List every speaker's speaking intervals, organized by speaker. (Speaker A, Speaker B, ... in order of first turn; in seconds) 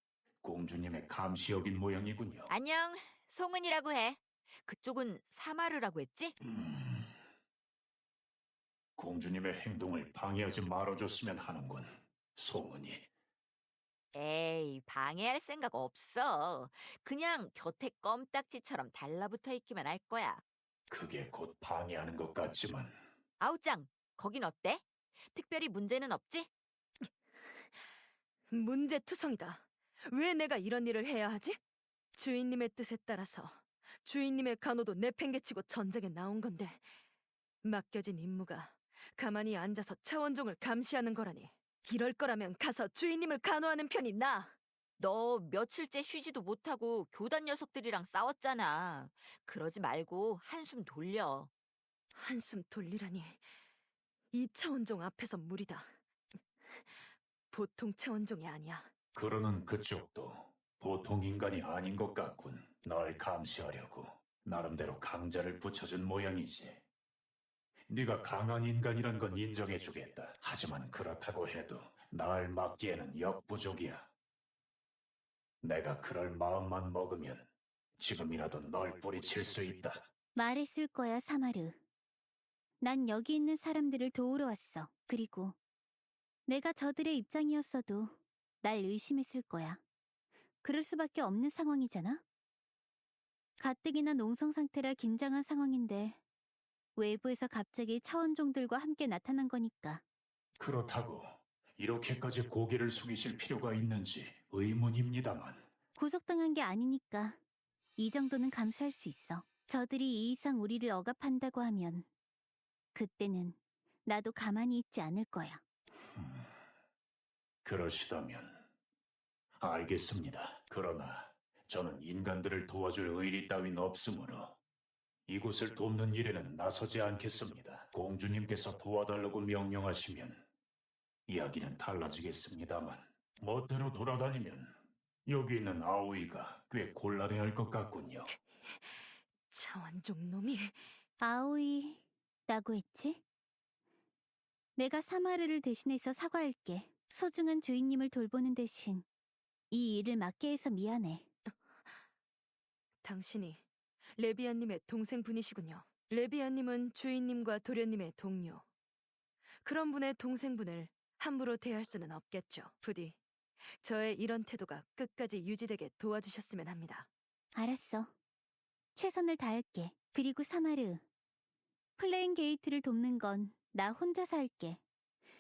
Speaker A: 0.4-2.5, 6.5-7.1, 9.0-13.1, 20.9-23.0, 59.1-66.8, 67.9-74.1, 75.6-80.1, 100.6-105.7, 116.2-116.5, 117.6-118.7, 119.6-124.6, 125.3-130.4, 131.3-138.3
Speaker B: 2.5-6.4, 14.2-20.4, 23.4-26.5, 45.0-51.5
Speaker C: 28.5-31.6, 32.1-36.9, 37.6-44.5, 52.1-53.5, 54.3-56.0, 56.6-57.0, 57.5-58.9, 138.7-138.9, 139.5-140.8, 153.0-158.6, 159.6-163.2, 163.8-167.1
Speaker D: 80.3-81.8, 82.8-85.6, 86.5-89.8, 90.6-92.2, 93.6-96.2, 97.0-100.0, 106.0-107.4, 108.0-112.1, 113.0-115.6, 141.2-143.2, 144.8-149.1, 149.7-151.3, 167.6-168.1, 168.9-171.0, 172.0-174.8